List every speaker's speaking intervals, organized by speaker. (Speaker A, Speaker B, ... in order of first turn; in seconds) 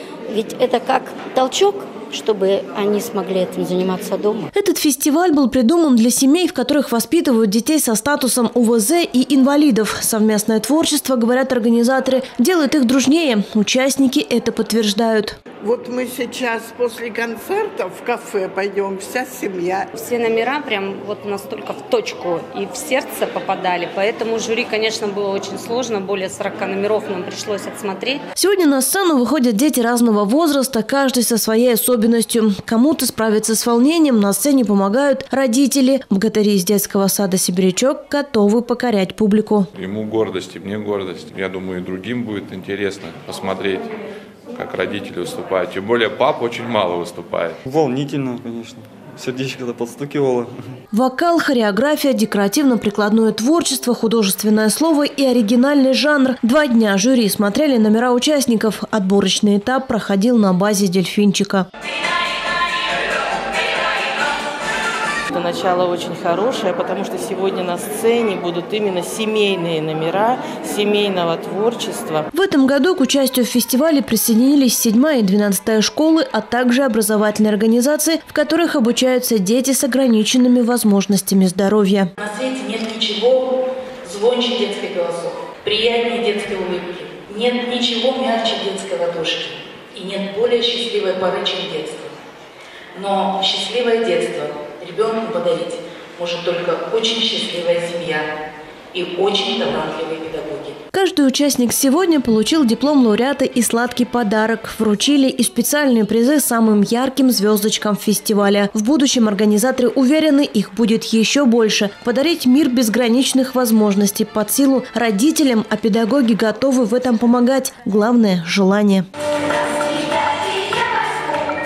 Speaker A: 0.3-4.5, 119.9-121.1
Speaker B: 4.5-15.4, 28.4-39.7, 50.9-61.7, 72.3-82.1, 100.9-119.0
Speaker C: 15.6-19.9
Speaker D: 19.9-28.2
Speaker E: 39.7-43.9, 44.5-47.6
Speaker F: 47.6-50.7
Speaker G: 65.3-72.3
Speaker H: 82.2-92.1, 92.9-98.2, 98.9-100.8